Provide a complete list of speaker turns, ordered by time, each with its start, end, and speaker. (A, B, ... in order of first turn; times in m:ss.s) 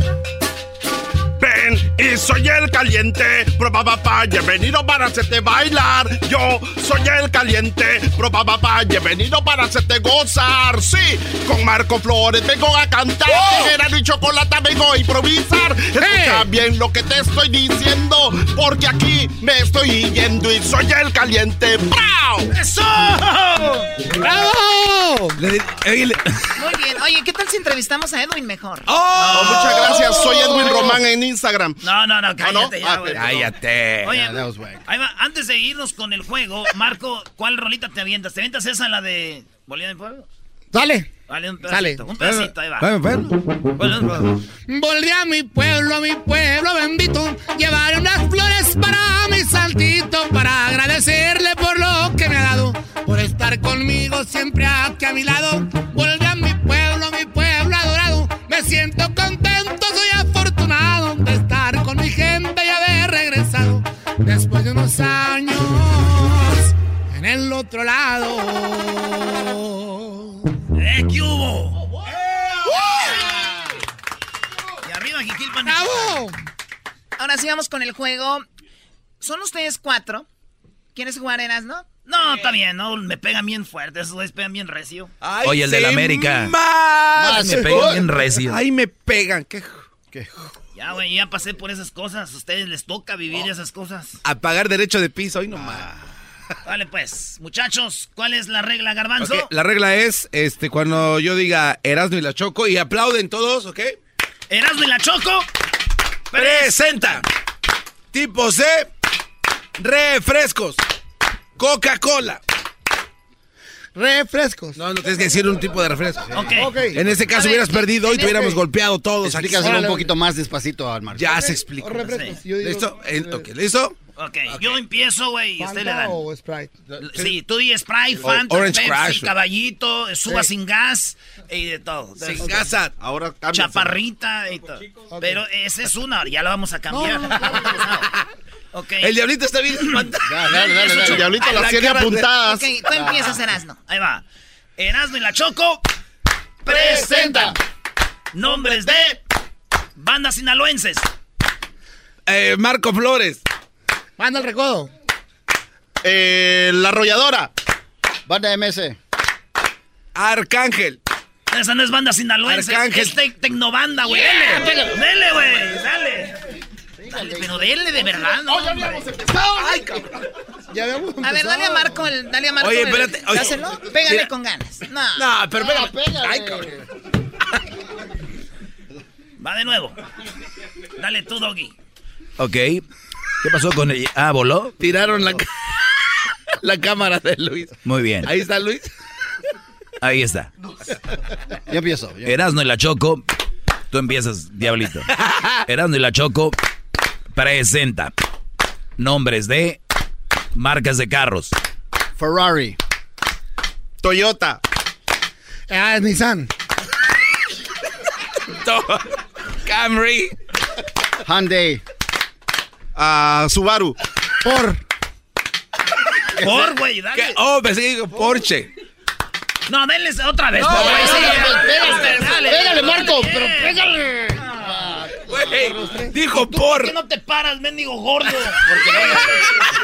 0:01.4-0:22.5 A
0:16.0-0:16.5 B
0:22.5-0:23.9 C
0:24.2-0:25.4 B
0:25.4-0:26.4 D
0:26.6-0:29.0 E
0:28.9-0:31.0 D
0:29.1-0:30.1 C
0:29.3-0:31.8 A
0:31.8-0:40.3 C
0:32.4-0:33.2 A
0:33.2-0:34.2 D
0:34.1-0:34.8 F
0:40.7-0:41.1 B
0:41.3-0:42.9 C
0:41.7-0:42.0 B
0:42.2-0:43.3 D
0:43.8-0:44.3 C
0:44.7-1:10.4 B
1:10.8-1:11.9 C
1:14.8-1:16.2 C
1:15.7-1:16.4 B
1:17.2-1:18.4 E
1:19.2-1:20.3 E
1:21.0-1:22.0 E
1:22.0-1:25.1 C
1:25.2-1:29.9 D
1:25.4-1:26.6 G
1:27.2-1:28.1 F
1:27.2-1:28.6 G
1:30.8-1:34.2 C
1:34.2-1:36.0 D
1:35.5-1:35.9 F
1:36.6-1:39.5 C
1:39.2-1:44.0 D
1:44.5-1:45.5 C
1:46.3-1:46.9 C
1:46.3-1:47.2 D
1:48.1-1:48.9 D
1:49.8-1:50.8 D
1:51.6-1:52.4 D
1:54.0-1:54.8 B
1:54.8-1:56.4 D
1:56.3-1:57.1 F
1:56.3-1:56.7 C
1:56.5-1:57.0 B
1:56.9-2:00.0 D
1:57.3-1:58.4 E
1:58.2-1:58.6 B
1:59.2-2:01.4 F
1:59.6-2:00.1 B
2:01.1-2:04.0 D
2:01.3-2:03.0 B
2:02.0-2:02.4 C
2:04.2-2:06.2 C
2:05.6-2:06.8 B
2:07.0-2:12.6 C
2:08.2-2:09.3 D
2:12.2-2:13.0 D
2:13.0-2:14.0 A
2:13.5-2:18.1 C
2:15.2-2:15.4 B
2:16.9-2:17.7 B
2:17.4-2:18.2 D
2:18.7-2:19.2 C
2:19.0-2:20.4 D
2:19.9-2:21.9 C
2:20.3-2:21.1 F
2:20.5-2:22.6 A
2:22.4-2:23.8 E
2:23.6-2:24.2 C
2:24.8-2:25.8 C
2:26.6-2:27.6 C
2:26.7-2:27.5 B
2:28.3-2:29.2 C
2:28.4-2:29.1 B
2:30.0-2:31.1 C
2:32.3-2:33.4 D
2:34.2-2:34.9 B
2:36.0-2:37.5 A
2:38.3-2:39.0 F
2:40.2-2:41.0 D
2:41.5-2:46.4 C
2:42.5-2:43.2 D
2:44.4-2:44.8 B
2:47.0-2:47.7 F
2:47.1-2:49.1 C
2:48.5-2:49.8 F
2:49.4-2:50.1 D
2:50.7-2:52.0 B
2:51.2-2:55.2 E
2:52.6-2:54.3 D
2:55.2-2:56.6 D
2:55.5-2:56.8 F
2:59.4-3:00.0 C
3:01.0-3:01.7 C
3:02.4-3:02.8 G
3:03.4-3:04.8 G
3:06.8-3:07.6 A
3:07.8-3:08.3 G
3:08.2-3:08.9 D
3:10.0-3:10.5 G
3:11.7-3:12.4 F
3:12.2-3:13.2 G
3:13.9-3:15.1 G
3:15.2-3:15.5 D
3:15.7-3:16.6 G
3:17.4-3:18.1 G
3:19.0-3:19.8 G
3:20.6-3:21.5 G
3:22.2-3:22.8 F
3:24.0-3:24.6 A
3:25.7-3:26.5 B
3:28.5-3:29.1 D
3:29.6-3:30.3 D
3:31.2-3:31.8 F
3:33.0-3:34.0 A
3:34.4-3:34.8 B
3:36.4-3:37.4 C
3:36.4-3:38.7 D
3:39.7-3:43.9 C
3:40.8-3:41.4 B
3:40.8-3:41.8 F
3:42.0-3:42.7 B
3:42.7-3:43.1 F
3:43.3-3:44.3 B
3:44.4-3:44.8 C
3:45.3-3:46.9 D
3:46.3-3:49.5 C